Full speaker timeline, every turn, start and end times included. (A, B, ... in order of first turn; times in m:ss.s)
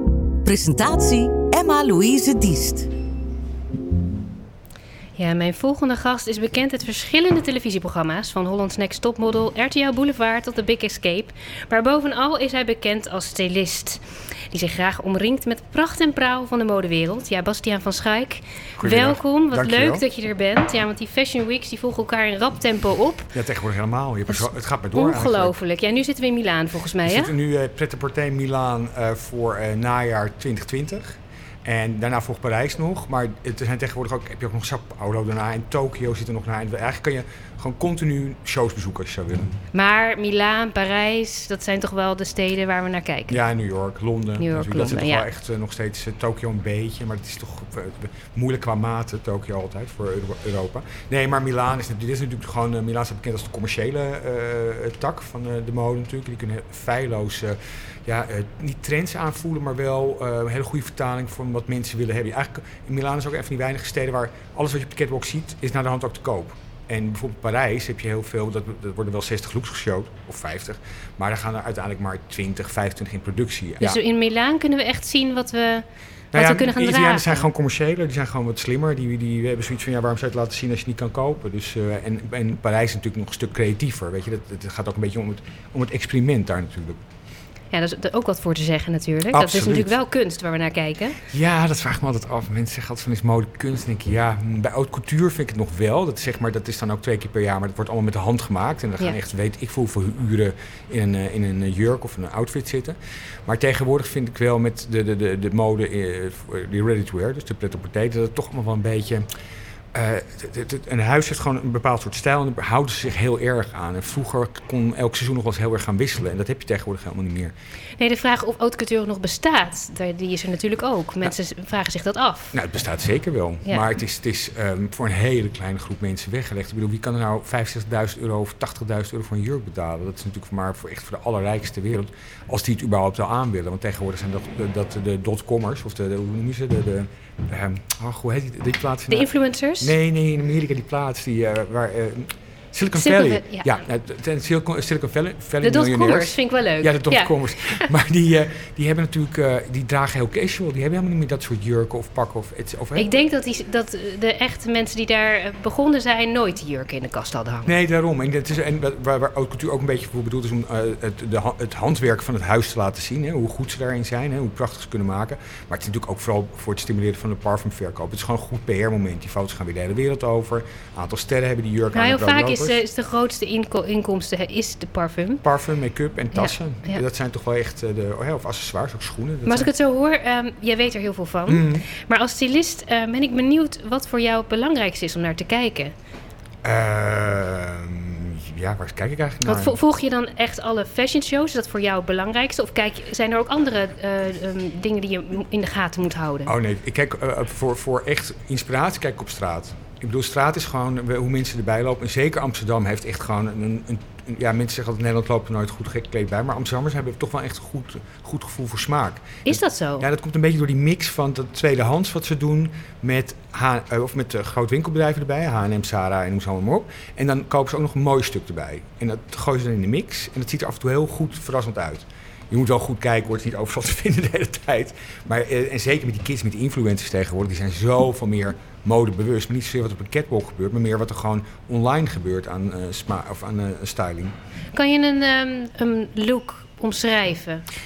0:00.4-0:02.9 A
0:05.2-0:23.3 B
0:18.8-0:20.0 C
0:23.3-0:25.5 C
0:24.3-0:27.3 B
0:27.0-0:39.6 C
0:39.7-0:43.4 B
0:43.3-1:14.0 C
0:44.4-0:45.2 B
1:13.8-1:17.5 B
1:16.3-1:27.0 C
1:27.7-1:31.2 B
1:29.3-1:29.9 C
1:31.3-1:49.2 C
1:49.9-1:57.5 C
1:58.0-2:02.5 B
2:02.5-2:19.3 C
2:19.1-2:19.9 B
2:19.8-2:33.1 C
2:22.9-2:23.8 B
2:25.6-2:27.9 B
2:33.0-2:37.7 B
2:37.6-2:52.8 C
2:51.9-2:55.4 B
2:55.4-2:59.7 C
2:56.3-2:57.0 B
2:59.4-3:05.9 B
3:01.5-3:01.8 C
3:06.6-3:09.8 C
3:09.4-3:16.5 B
3:16.4-3:54.3 C
3:29.4-3:30.0 B
3:54.7-3:57.6 B